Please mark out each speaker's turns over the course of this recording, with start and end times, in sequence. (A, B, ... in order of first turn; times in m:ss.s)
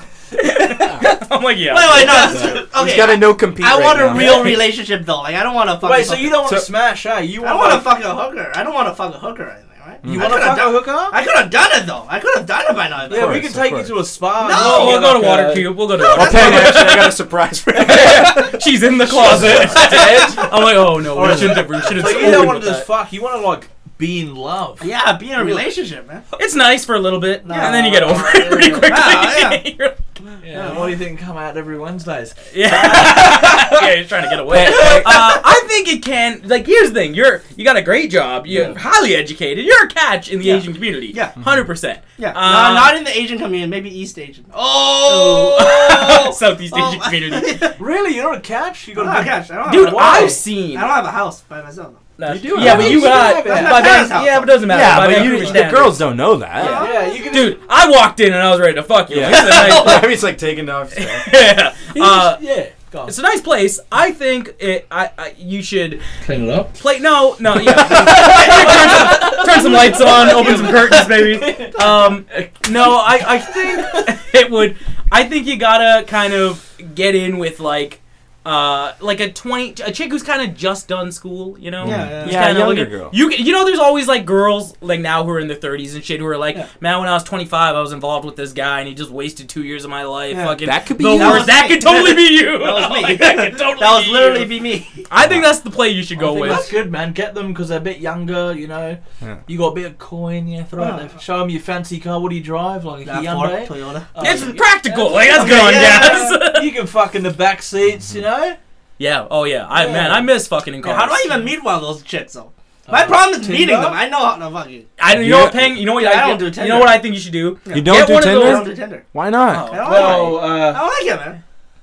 0:00.4-0:02.6 A
0:01.7-0:06.5 B
0:01.9-0:02.6 C
0:02.6-0:04.7 D
0:05.8-0:08.0 C
0:06.4-0:06.7 D
0:07.4-0:13.5 B
0:10.0-0:10.5 D
0:10.1-0:11.2 C
0:13.1-0:14.0 D
0:13.1-0:15.8 C
0:14.4-0:15.2 B
0:14.5-0:17.2 A
0:16.1-0:19.8 D
0:16.1-0:16.8 B
0:17.8-0:22.9 A
0:17.8-0:18.3 C
0:19.1-0:25.6 C
0:19.3-0:20.3 B
0:21.3-0:22.4 B
0:24.8-0:26.2 B
0:26.4-0:30.1 A
0:27.5-0:28.9 C
0:27.5-0:28.0 B
0:28.8-0:29.6 B
0:30.4-0:33.9 C
0:30.5-0:31.0 B
0:32.5-0:43.0 A
0:34.5-0:35.3 D
0:34.6-0:35.2 C
0:40.4-0:41.4 B
0:42.2-0:47.8 B
0:45.1-0:47.7 A
0:47.8-0:50.4 C
0:49.0-0:52.0 B
0:49.6-0:50.9 A
0:52.2-1:00.1 A
0:52.3-0:53.2 D
0:52.5-0:54.1 C
0:53.0-0:55.7 B
0:54.7-0:56.9 D
0:56.6-0:57.3 B
0:56.7-0:57.6 C
0:59.1-1:01.4 D
0:59.3-1:00.0 B
1:01.0-1:02.4 A
1:02.0-1:03.2 C
1:03.1-1:06.0 A
1:06.2-1:06.8 C
1:06.8-1:34.5 A
1:07.8-1:08.0 D
1:08.0-1:11.0 B
1:08.0-1:14.1 C
1:21.8-1:23.2 D
1:21.8-1:22.4 B
1:30.3-1:35.1 B
1:30.6-1:31.6 D
1:35.1-1:36.7 A
1:35.2-1:35.5 D
1:36.2-1:48.6 C
1:36.3-1:36.7 B
1:40.8-1:41.1 B
1:43.0-1:44.1 B
1:44.2-1:46.7 A
1:45.2-1:46.4 B
1:49.0-1:51.4 A
1:49.7-1:50.3 C
1:50.8-1:54.9 B
1:52.9-1:54.0 C
1:55.0-1:58.7 A
1:55.1-1:55.8 D
1:55.9-1:57.0 B
1:57.7-1:59.0 B
1:57.7-1:59.7 D
1:59.5-2:00.4 A
1:59.6-2:01.4 B
1:59.8-2:00.8 C